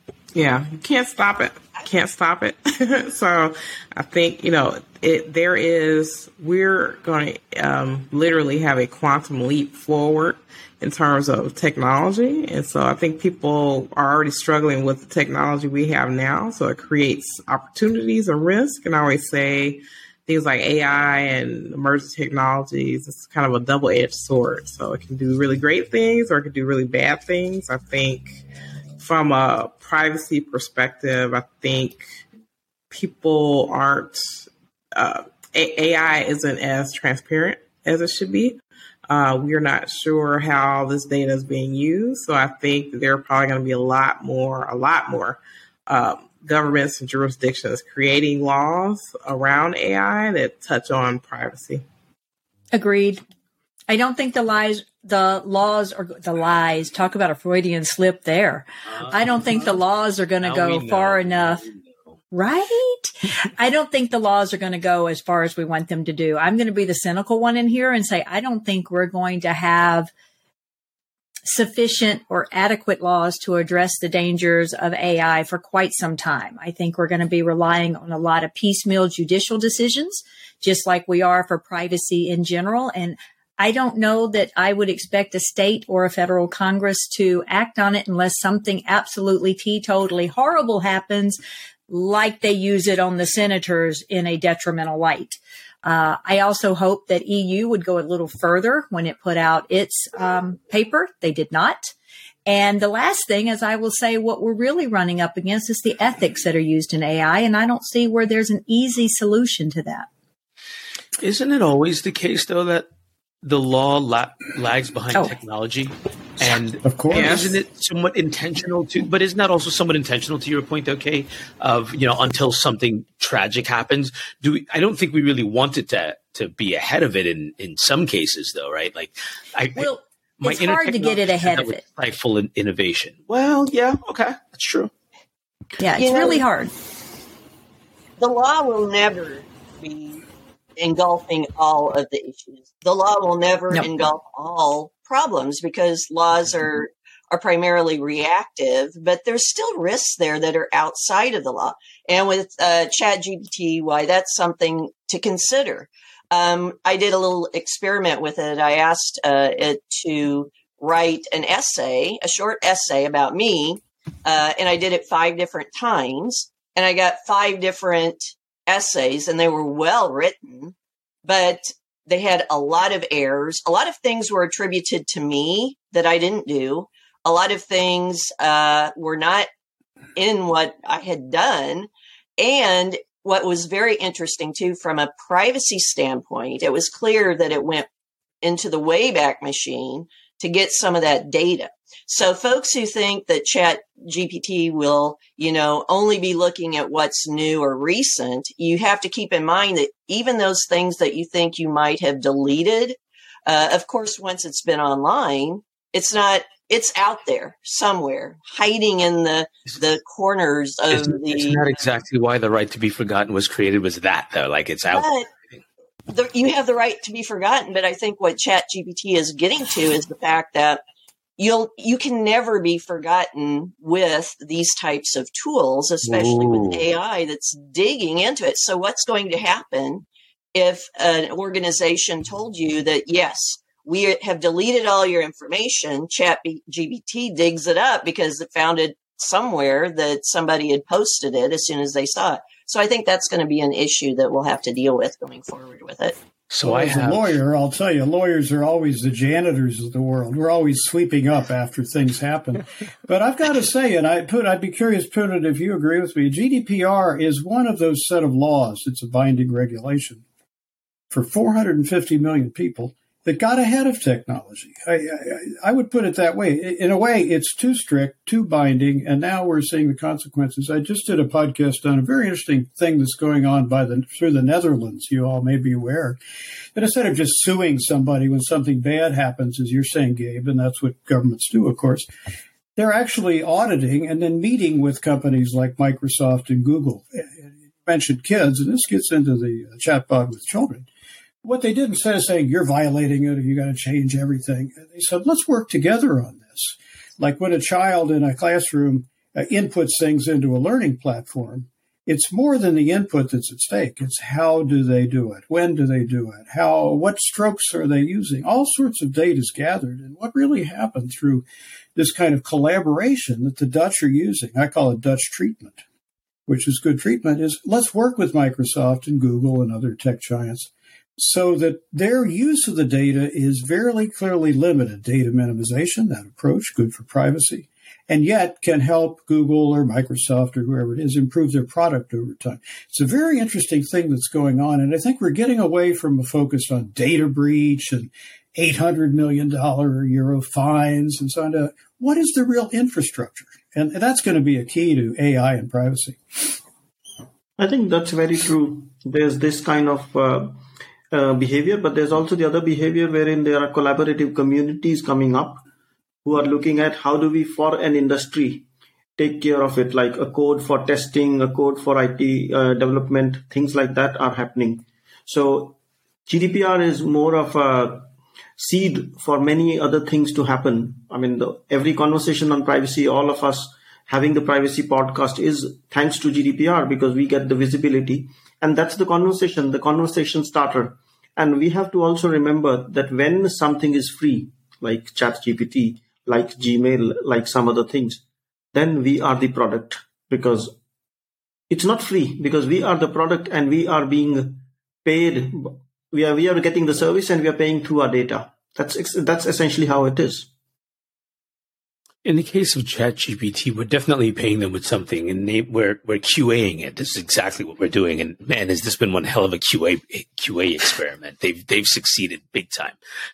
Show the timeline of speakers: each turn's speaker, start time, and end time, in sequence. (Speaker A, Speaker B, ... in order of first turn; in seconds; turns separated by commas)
Speaker A: 0.3-28.4, Speaker A: 29.0-32.1, Speaker A: 32.9-51.8, Speaker B: 52.7-53.2, Speaker B: 53.9-61.6, Speaker C: 59.0-59.7, Speaker C: 60.4-61.8, Speaker B: 62.3-70.1, Speaker B: 71.5-91.4, Speaker B: 91.9-101.9, Speaker B: 102.5-110.1, Speaker C: 111.2-112.9, Speaker C: 113.4-129.9, Speaker D: 116.8-117.4, Speaker A: 117.1-117.5, Speaker B: 129.8-131.8, Speaker C: 130.4-134.9, Speaker B: 135.8-136.7, Speaker E: 136.0-136.4, Speaker E: 138.2-140.2, Speaker E: 140.8-170.7, Speaker E: 171.2-179.5, Speaker E: 180.2-187.9, Speaker E: 188.4-211.6, Speaker C: 210.9-215.6, Speaker E: 214.9-215.3, Speaker E: 216.1-220.8, Speaker E: 221.4-246.2, Speaker C: 226.0-226.8, Speaker C: 246.5-247.3, Speaker D: 246.6-260.2, Speaker D: 261.1-276.2, Speaker D: 276.8-282.1, Speaker D: 282.8-290.9, Speaker D: 291.4-315.8, Speaker D: 316.5-346.5, Speaker F: 347.6-355.6, Speaker F: 356.2-358.7, Speaker F: 359.2-388.2, Speaker F: 388.7-390.8, Speaker F: 391.7-400.5, Speaker C: 402.2-413.0